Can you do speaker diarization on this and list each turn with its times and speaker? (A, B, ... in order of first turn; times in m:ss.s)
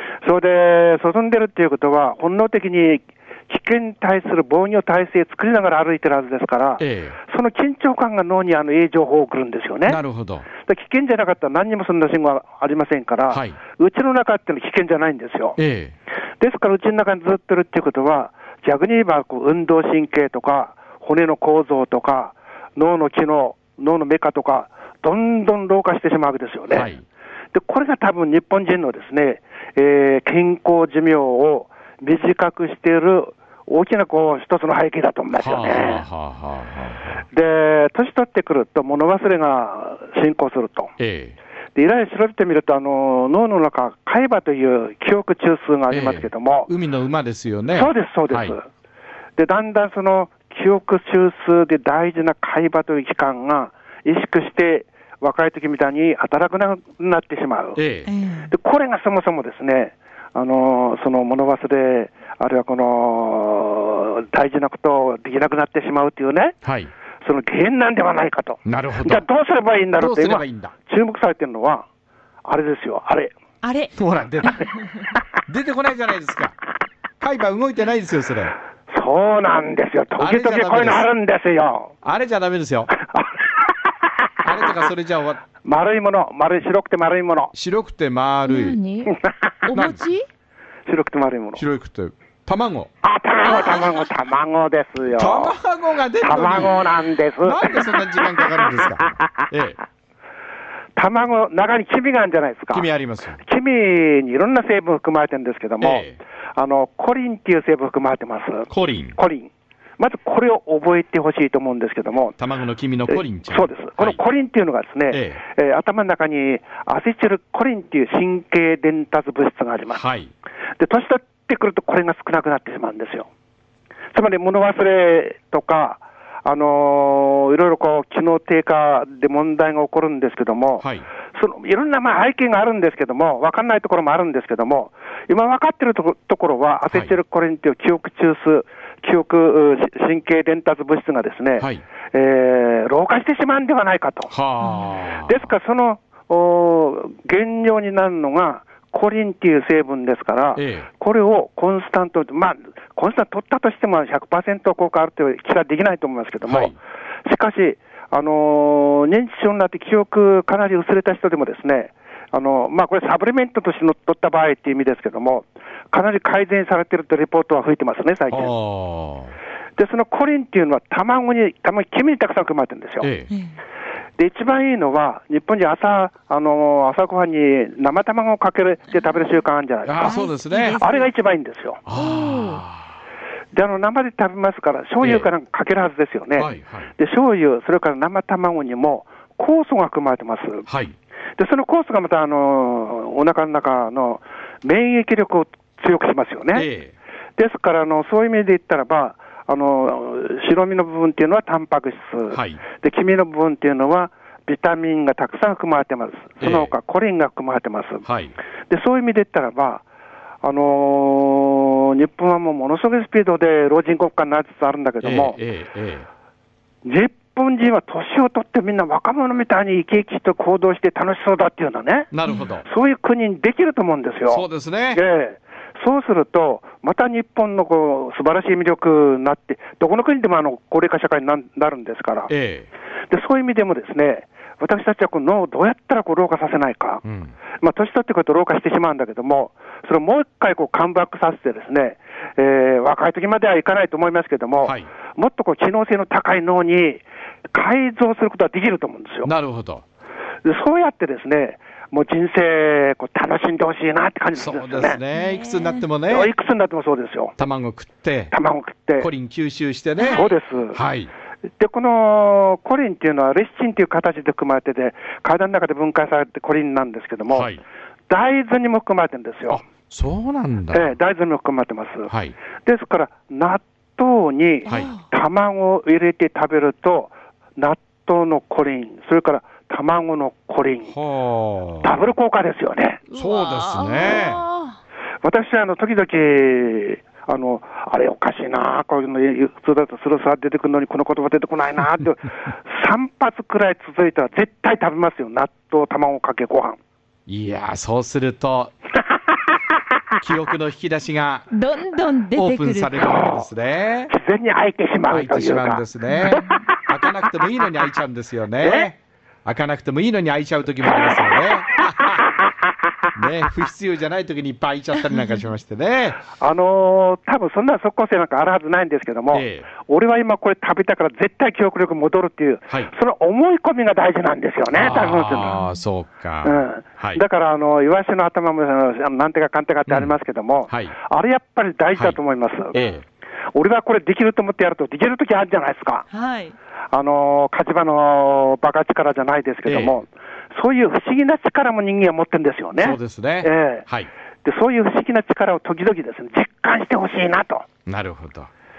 0:00.2-0:10.0 A
0:06.8-0:07.2 B
0:09.8-0:10.4 B
0:10.6-0:15.6 A
0:13.3-0:13.6 B
0:15.6-0:15.9 B
0:16.4-0:26.9 A
0:26.7-0:27.0 B
0:27.5-0:36.0 A
0:35.3-0:37.2 B
0:37.3-0:40.9 A
0:41.0-0:41.4 B
0:41.7-0:46.7 A
0:45.9-0:48.6 B
0:47.7-0:48.6 A
0:49.4-0:57.8 A
0:57.8-0:58.1 B
0:58.0-0:58.5 C
0:58.5-1:06.6 A
1:06.6-1:06.9 B
1:07.2-1:11.8 A
1:08.6-1:09.2 B
1:10.0-1:10.7 B
1:12.4-1:13.3 A
1:13.6-1:13.9 C
1:14.0-1:14.7 B
1:15.4-1:16.6 B
1:17.2-1:18.5 B
1:18.9-1:21.9 A
1:20.2-1:21.1 B
1:22.0-1:22.9 B
1:23.0-1:23.6 A
1:24.4-1:25.4 B
1:25.6-1:27.5 A
1:27.5-1:28.8 B
1:28.5-1:29.1 C
1:29.0-1:29.7 A
1:29.6-1:30.2 C
1:29.7-1:30.0 B
1:30.9-1:31.6 A
1:31.6-1:32.9 B
1:33.0-1:35.6 A
1:35.1-1:36.8 B
1:36.2-1:38.3 A
1:37.4-1:39.8 B
1:41.0-1:42.9 A
1:42.7-1:43.4 B
1:43.4-1:52.4 A
1:45.8-1:46.2 B
1:48.7-1:49.2 B
1:52.4-1:54.2 B
1:53.1-2:00.0 A
1:55.1-1:55.4 B
1:59.9-2:00.3 B
2:00.8-2:03.3 A
2:04.1-2:24.3 A
2:16.9-2:17.1 B
2:24.3-2:25.5 B
2:25.2-2:48.5 A
2:30.6-2:30.9 B
2:36.4-2:36.8 B
2:48.3-2:49.3 B
2:49.8-2:53.1 A
2:53.0-2:53.3 B
2:54.2-3:00.2 A
2:59.8-3:00.8 B
3:00.0-3:01.1 C
3:00.8-3:01.8 A
3:01.8-3:02.9 B
3:01.9-3:02.6 C
3:03.5-3:10.7 A
3:05.0-3:05.3 B
3:06.4-3:06.9 B
3:10.7-3:10.9 B
3:11.4-3:16.7 A
3:16.5-3:16.9 B
3:17.4-3:28.0 A
3:22.3-3:22.6 B
3:26.4-3:26.7 B
3:28.0-3:28.3 B
3:28.7-3:29.8 A
3:30.4-3:35.4 A
3:35.0-3:36.1 B
3:36.8-3:42.1 A
3:42.1-3:42.6 B
3:42.6-3:52.3 A
3:44.3-3:45.0 B
3:52.3-3:52.7 B
3:53.1-3:57.0 A
3:57.0-3:57.3 B
3:57.6-4:09.3 A
4:04.6-4:04.9 B
4:09.2-4:09.8 B
4:10.4-4:15.0 A
4:14.3-4:16.3 B
4:15.1-4:15.8 C
4:16.1-4:17.3 A
4:17.4-4:18.3 B
4:18.3-4:19.1 A
4:19.0-4:21.1 B
4:20.0-4:20.3 C
4:20.1-4:20.8 A
4:21.6-4:27.5 A
4:27.3-4:27.6 B
4:28.1-4:29.6 A
4:29.5-4:30.9 B
4:30.7-4:40.9 A
4:32.1-4:32.3 B
4:34.7-4:35.0 C
4:40.9-4:42.0 B
4:41.8-4:43.0 A
4:43.1-4:44.8 C
4:43.1-4:44.4 B
4:45.2-4:56.8 A
4:57.3-4:58.7 B
5:00.2-5:01.5 B
5:01.5-5:03.2 C
5:02.3-5:04.1 B
5:03.0-5:03.5 A
5:04.1-5:07.1 A
5:05.1-5:12.3 B
5:08.6-5:08.9 A
5:13.1-5:16.2 B
5:16.4-5:25.6 A
5:19.3-5:19.7 B
5:24.7-5:27.2 B
5:26.4-5:32.8 A
5:29.9-5:30.1 B
5:30.7-5:30.9 B
5:32.7-5:33.0 B
5:33.5-5:36.0 A
5:36.1-5:36.5 C
5:36.9-5:43.8 A
5:39.6-5:40.0 B
5:42.8-5:44.1 B
5:44.4-5:47.6 A
5:47.9-5:48.5 B